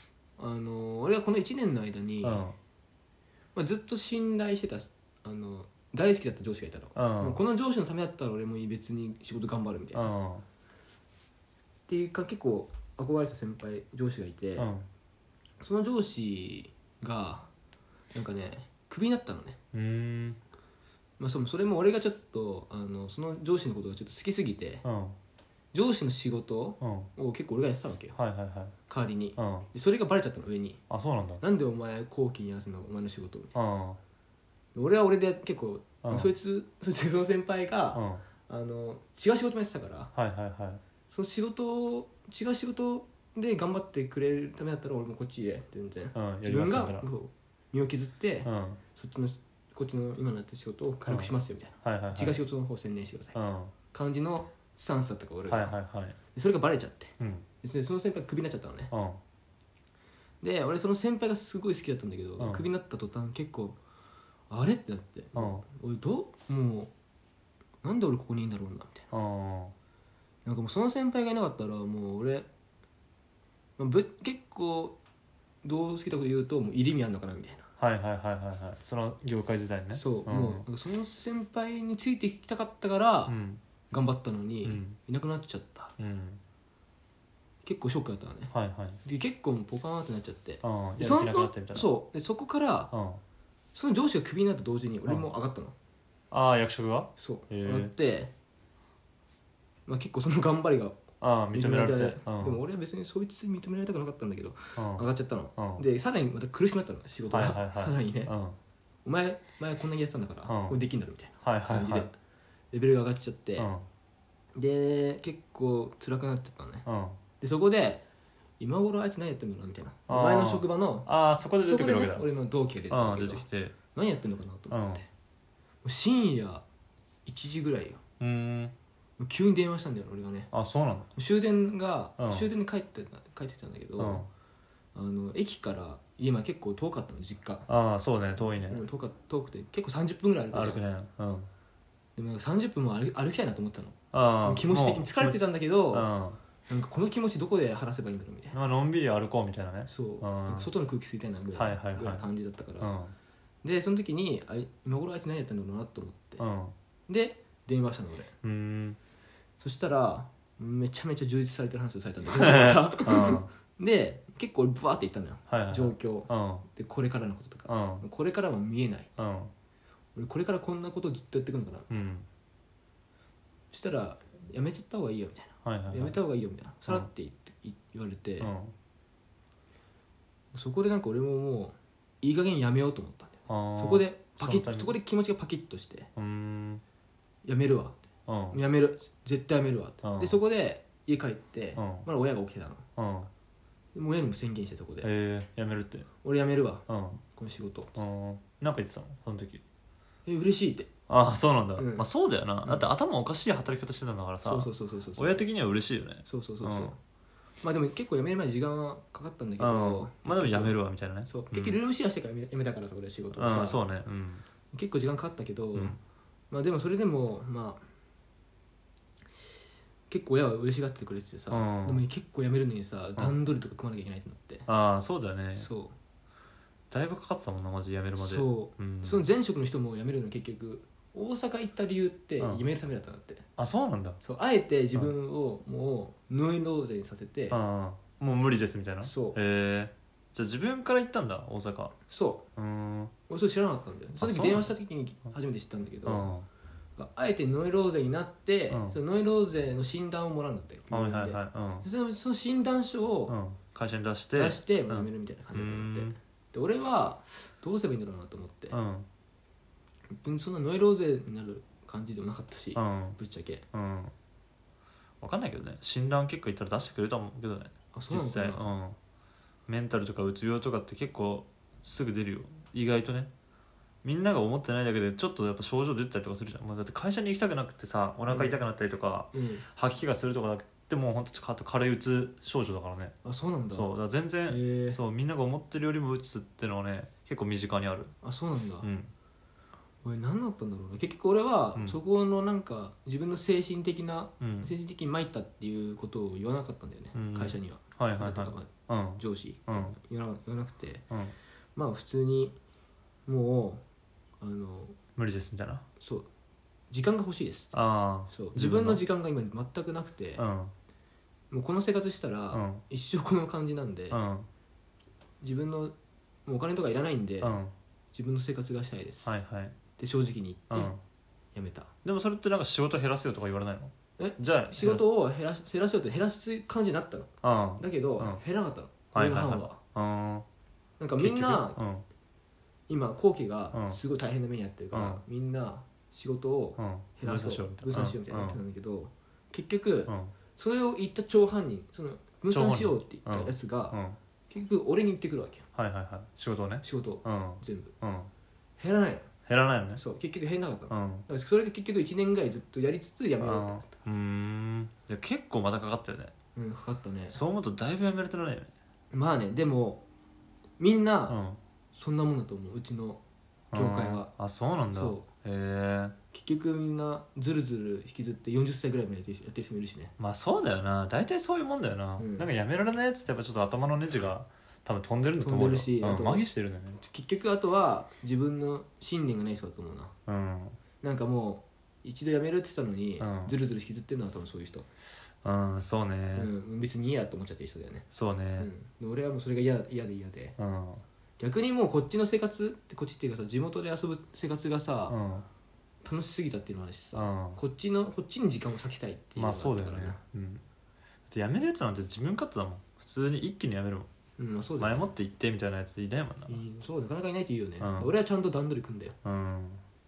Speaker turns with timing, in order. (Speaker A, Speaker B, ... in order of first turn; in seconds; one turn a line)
Speaker A: 0.4-2.4
Speaker B: 2.2-2.5
Speaker A: 3.5-10.1
Speaker B: 6.9-7.4
Speaker B: 9.9-10.4
Speaker A: 11.9-14.7
Speaker B: 14.6-14.9
Speaker A: 15.6-17.5
Speaker A: 18.1-19.6
Speaker B: 19.7-20.4
Speaker A: 21.2-24.8
Speaker B: 24.8-25.2
Speaker A: 25.7-28.2
Speaker B: 26.8-27.1
Speaker B: 28.1-28.7
Speaker A: 28.9-30.8
Speaker B: 29.4-29.7
Speaker B: 30.9-31.4
Speaker A: 31.4-33.5
Speaker B: 33.5-34.0
Speaker A: 34.7-40.1
Speaker B: 36.0-36.3
Speaker B: 37.9-38.2
Speaker B: 40.1-40.8
Speaker A: 41.1-53.4
Speaker B: 46.1-47.1
Speaker B: 48.4-48.8
Speaker B: 51.0-51.3
Speaker B: 51.8-52.4
Speaker B: 53.3-53.7
Speaker A: 53.9-55.7
Speaker B: 55.5-56.2
Speaker A: 56.3-58.9
Speaker B: 57.2-57.5
Speaker B: 58.9-59.2
Speaker A: 60.4-63.8
Speaker B: 62.4-62.6
Speaker A: 64.5-66.9
Speaker B: 65.3-65.6
Speaker A: 67.8-69.0
Speaker B: 69.1-69.7
Speaker A: 70.4-72.5
Speaker A: 73.8-75.0
Speaker A: 75.6-77.6
Speaker B: 77.8-80.6
Speaker A: 79.9-83.3
Speaker B: 83.3-83.6
Speaker A: 83.9-85.9
Speaker B: 84.6-85.0
Speaker B: 86.0-86.4
Speaker A: 87.6-92.9
Speaker B: 88.5-89.0
Speaker B: 90.6-91.9
Speaker B: 92.9-93.2
Speaker A: 93.7-95.7
Speaker B: 96.3-97.9
Speaker A: 97.2-98.3
Speaker A: 99.9-101.0
Speaker B: 101.2-102.6
Speaker A: 101.5-108.3
Speaker B: 104.8-105.0
Speaker B: 105.6-105.8
Speaker B: 107.3-108.6
Speaker A: 109.0-112.1
Speaker B: 110.5-110.7
Speaker B: 111.4-112.1
Speaker A: 112.7-113.7
Speaker B: 113.6-113.9
Speaker A: 114.5-116.8
Speaker B: 116.8-117.2
Speaker A: 117.4-118.0
Speaker A: 118.6-121.1
Speaker B: 120.1-122.2
Speaker A: 121.6-125.0
Speaker B: 122.9-123.8
Speaker B: 124.7-125.0
Speaker A: 125.8-126.6
Speaker A: 127.2-128.0
Speaker B: 128.2-128.7
Speaker A: 129.2-130.5
Speaker B: 130.5-131.1
Speaker A: 131.2-134.3
Speaker B: 132.2-132.5
Speaker B: 134.0-134.3
Speaker A: 134.9-137.7
Speaker B: 137.7-138.8
Speaker A: 138.4-140.8
Speaker B: 140.5-141.5
Speaker A: 142.2-146.1
Speaker B: 144.1-146.4
Speaker A: 146.7-148.6
Speaker B: 148.5-150.7
Speaker A: 149.9-152.9
Speaker B: 151.6-152.2
Speaker B: 152.8-153.1
Speaker A: 153.6-156.4
Speaker B: 156.4-156.7
Speaker A: 157.1-158.3
Speaker B: 158.4-159.0
Speaker A: 159.6-169.1
Speaker B: 162.3-163.4
Speaker B: 165.5-166.6
Speaker B: 167.7-168.0
Speaker B: 169.2-169.5
Speaker A: 170.2-172.0
Speaker B: 171.9-172.2
Speaker A: 173.7-178.5
Speaker B: 175.6-176.2
Speaker B: 178.4-178.7
Speaker A: 180.5-186.1
Speaker B: 183.5-184.9
Speaker B: 186.2-186.8
Speaker A: 187.4-192.8
Speaker B: 188.3-188.6
Speaker B: 190.0-190.4
Speaker B: 191.8-192.1
Speaker B: 193.0-193.3
Speaker A: 193.9-195.1
Speaker B: 195.0-196.1
Speaker A: 196.2-198.0
Speaker B: 196.9-197.2
Speaker B: 197.9-199.6
Speaker A: 200.2-200.9
Speaker B: 201.1-206.9
Speaker A: 201.8-202.1
Speaker A: 204.4-205.4
Speaker A: 206.2-207.0
Speaker A: 207.6-213.8
Speaker B: 209.6-211.8
Speaker B: 213.3-214.4
Speaker A: 214.7-216.0
Speaker A: 216.5-217.8
Speaker A: 220.1-224.7
Speaker B: 221.5-222.0
Speaker B: 224.7-225.7
Speaker A: 225.6-225.9
Speaker B: 226.9-229.2
Speaker A: 228.2-233.4
Speaker B: 232.4-232.7
Speaker B: 233.6-234.2
Speaker A: 234.2-237.6
Speaker B: 237.5-242.0
Speaker A: 239.0-239.4
Speaker A: 242.1-242.4
Speaker B: 242.6-243.1
Speaker A: 243.3-246.3
Speaker B: 244.2-244.7
Speaker B: 246.0-246.5
Speaker A: 247.0-253.3
Speaker B: 248.7-249.0
Speaker B: 250.9-251.8
Speaker B: 253.3-256.1
Speaker A: 254.3-258.8
Speaker B: 258.7-259.1
Speaker A: 260.1-263.6
Speaker B: 262.7-263.2
Speaker B: 263.7-264.1
Speaker B: 265.2-269.0
Speaker A: 267.9-268.6
Speaker B: 269.7-273.3
Speaker B: 274.0-283.1
Speaker A: 278.3-278.6
Speaker A: 279.3-279.6
Speaker A: 283.2-283.9
Speaker B: 283.7-288.1
Speaker A: 284.5-285.0
Speaker A: 288.2-288.9
Speaker B: 288.8-289.1
Speaker A: 290.0-301.0
Speaker B: 294.4-294.7
Speaker B: 297.1-299.9
Speaker A: 301.8-302.6
Speaker A: 303.2-303.8
Speaker A: 304.4-305.0
Speaker B: 305.1-305.8
Speaker A: 306.0-306.3
Speaker A: 306.9-307.8
Speaker B: 307.7-309.0
Speaker A: 308.3-310.4
Speaker B: 310.4-310.7
Speaker A: 311.5-314.2
Speaker B: 312.5-312.8
Speaker B: 314.1-314.5
Speaker A: 315.4-315.9
Speaker A: 316.4-317.5
Speaker B: 317.4-317.7
Speaker A: 318.1-319.3
Speaker B: 319.2-319.7
Speaker A: 320.0-320.9
Speaker B: 320.7-321.0
Speaker A: 321.5-321.9
Speaker B: 322.0-325.0
Speaker A: 324.2-329.8
Speaker B: 327.4-328.4
Speaker B: 329.1-330.4
Speaker A: 331.0-331.8
Speaker B: 331.2-332.1
Speaker A: 332.9-344.0
Speaker B: 333.7-334.0
Speaker B: 334.9-335.2
Speaker B: 336.8-338.6
Speaker B: 340.1-340.3
Speaker B: 342.5-344.2
Speaker A: 344.5-345.6
Speaker B: 345.7-348.3
Speaker A: 346.8-347.9
Speaker A: 348.8-349.3
Speaker B: 349.4-350.0
Speaker A: 349.9-354.0
Speaker B: 350.9-351.2
Speaker B: 353.4-356.3
Speaker A: 356.6-357.4
Speaker B: 357.3-358.7
Speaker A: 359.1-360.0
Speaker A: 360.8-361.4
Speaker B: 361.3-361.6
Speaker A: 361.9-363.2
Speaker B: 363.7-366.1
Speaker A: 363.7-364.3
Speaker A: 364.9-365.3
Speaker A: 366.3-370.1
Speaker B: 370.2-377.0
Speaker A: 372.2-372.5
Speaker A: 375.4-380.1
Speaker B: 380.3-380.8
Speaker A: 381.0-384.9
Speaker B: 383.2-383.5
Speaker B: 385.4-386.5
Speaker A: 386.3-390.6
Speaker B: 388.1-388.7
Speaker B: 390.6-391.0
Speaker A: 391.4-395.2
Speaker B: 395.1-395.4
Speaker A: 396.0-400.2
Speaker B: 397.1-397.6
Speaker B: 399.4-400.6
Speaker B: 401.3-404.1
Speaker A: 404.4-405.0
Speaker B: 404.8-406.6
Speaker A: 406.5-409.1
Speaker B: 407.8-408.1
Speaker B: 409.2-409.8